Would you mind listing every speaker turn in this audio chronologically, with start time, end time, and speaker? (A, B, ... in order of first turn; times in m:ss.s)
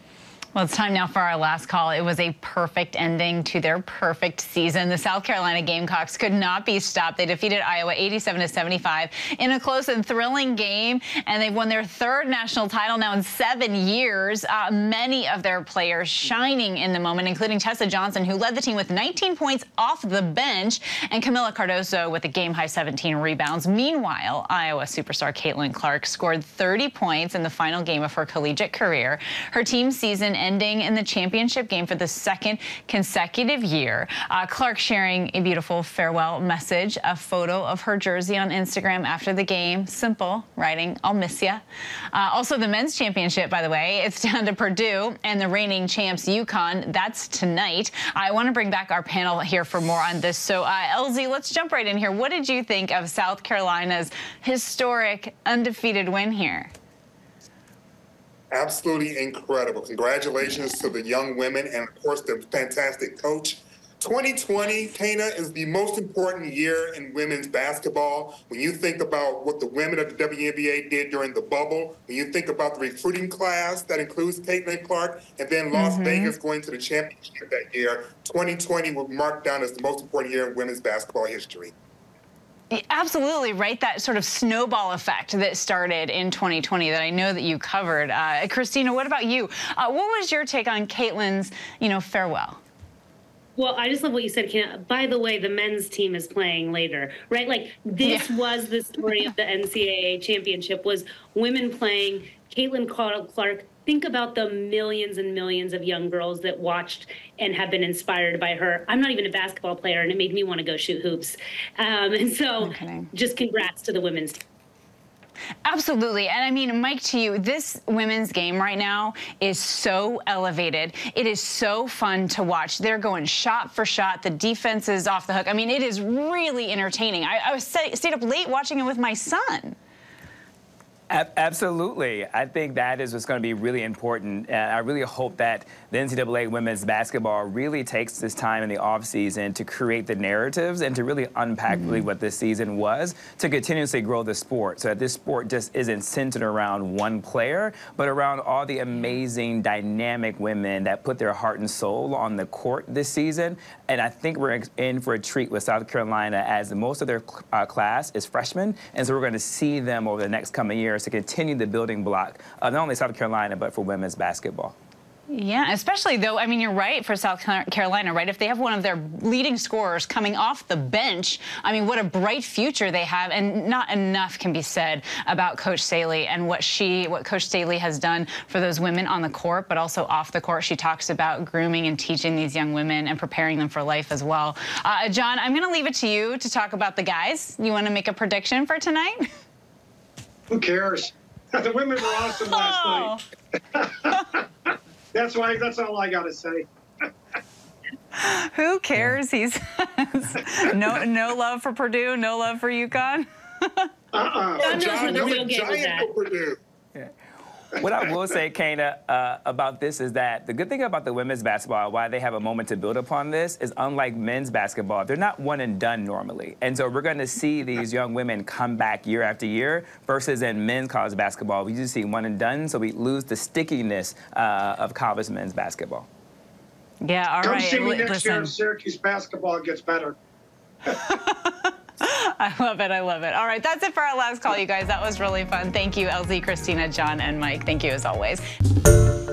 0:00.5-0:56.7 A
0:58.5-1:21.7 B
1:15.7-1:16.4 A
1:22.7-1:32.6 A
1:33.6-1:54.4 C
1:38.0-1:38.4 A
1:52.6-1:53.1 A
1:55.6-2:09.8 A
2:11.1-2:44.7 D
2:21.7-2:22.0 A
2:45.3-3:09.2 A
3:10.5-3:13.1 E
3:12.5-3:13.2 A
3:13.7-3:17.1 E
3:18.2-3:23.9 A
3:24.1-3:25.3 E
3:24.6-3:26.6 B
3:24.6-3:26.1 C
3:27.7-3:46.1 D
3:47.0-3:48.5 A
3:47.4-3:50.2 E
3:51.0-3:58.4 A